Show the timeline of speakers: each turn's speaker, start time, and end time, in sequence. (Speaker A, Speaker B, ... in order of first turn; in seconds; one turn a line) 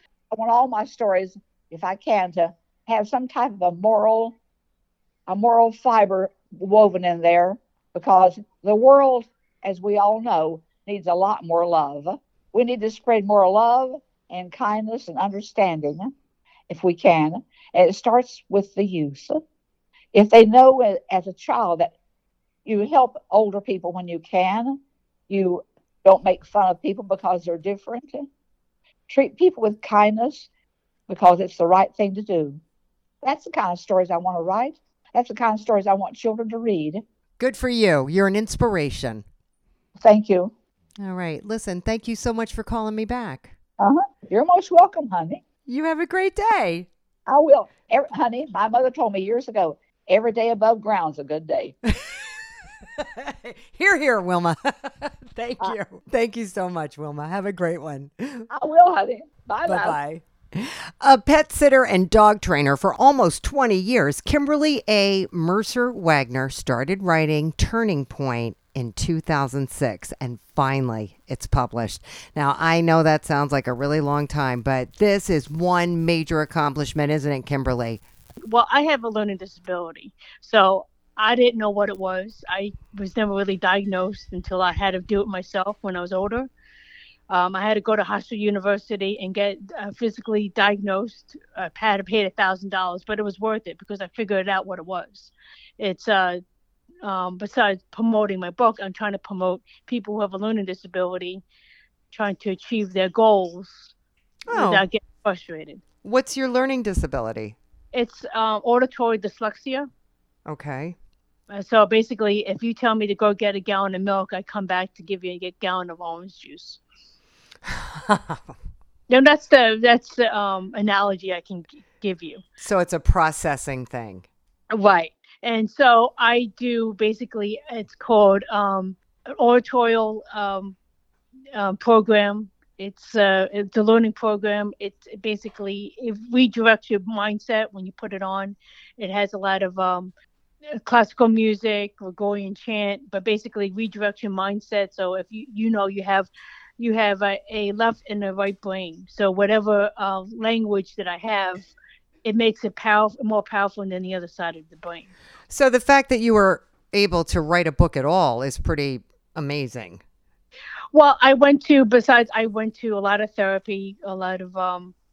Speaker A: 0.3-4.4
Speaker A: 5.3-16.1
Speaker A: 16.7-19.4
Speaker A: 20.1-21.9
Speaker A: 22.6-28.3
Speaker A: 29.1-30.5
Speaker A: 31.1-32.6
Speaker A: 33.2-37.0
Speaker B: 37.4-39.2
Speaker A: 40.0-40.5
Speaker B: 41.0-43.5
Speaker A: 43.8-45.4
Speaker B: 45.6-46.9
Speaker A: 47.3-51.7
Speaker B: 51.9-52.4
Speaker B: 53.0-58.5
Speaker A: 58.5-60.0
Speaker B: 59.6-78.0
Speaker C: 78.4-86.5
Speaker C: 87.3-96.4
Speaker C: 97.0-101.4
Speaker C: 102.1-103.9
Speaker B: 104.5-104.8
Speaker C: 104.5-105.8
Speaker B: 106.0-107.6
Speaker C: 107.9-109.9
Speaker B: 110.5-111.0
Speaker C: 111.5-116.8
Speaker B: 117.7-118.5
Speaker C: 119.1-122.4
Speaker B: 122.6-124.3
Speaker C: 124.7-130.8
Speaker C: 131.5-140.1
Speaker C: 140.8-151.7
Speaker C: 152.2-155.1
Speaker B: 155.5-160.0
Speaker C: 160.9-164.9